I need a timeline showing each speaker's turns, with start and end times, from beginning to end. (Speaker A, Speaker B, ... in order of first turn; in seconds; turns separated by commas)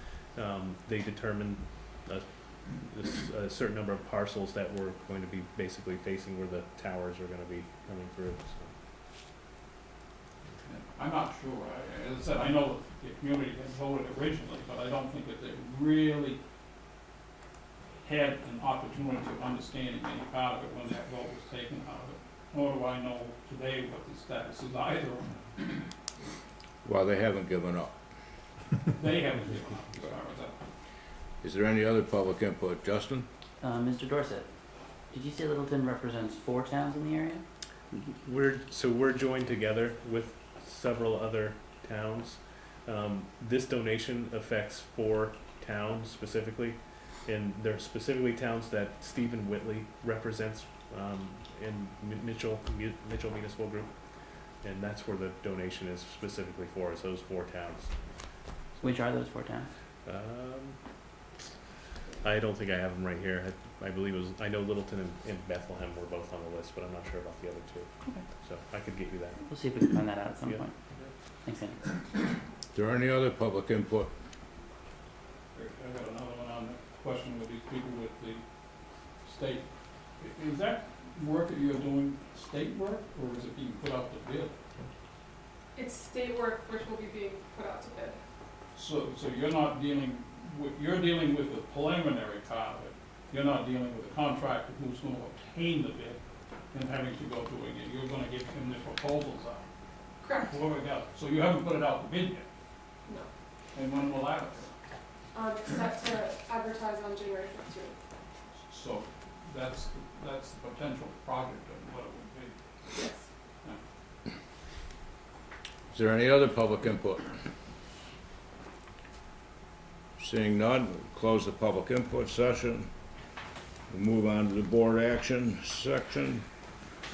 Speaker A: 0.3-8.7, Speaker B: 10.6-16.4, Speaker B: 18.0-25.8, Speaker C: 26.9-27.9, Speaker B: 28.9-30.6, Speaker C: 31.4-33.3, Speaker D: 33.6-34.5, Speaker D: 35.1-37.4, Speaker A: 38.0-53.9, Speaker A: 54.6-57.9, Speaker D: 58.8-59.7, Speaker A: 60.1-60.8, Speaker A: 62.2-69.4, Speaker D: 69.5-70.7, Speaker D: 71.5-71.8, Speaker C: 72.7-74.1, Speaker B: 75.5-78.4, Speaker B: 79.2-79.6, Speaker B: 80.2-84.6, Speaker E: 85.8-88.2, Speaker B: 88.7-96.2, Speaker B: 96.7-99.7, Speaker E: 100.2-100.6, Speaker B: 100.5-102.5, Speaker B: 103.7-104.7, Speaker E: 105.3-108.0, Speaker B: 108.7-112.5, Speaker E: 113.0-113.2, Speaker C: 115.9-117.3, Speaker C: 120.2-122.9, Speaker C: 123.9-126.5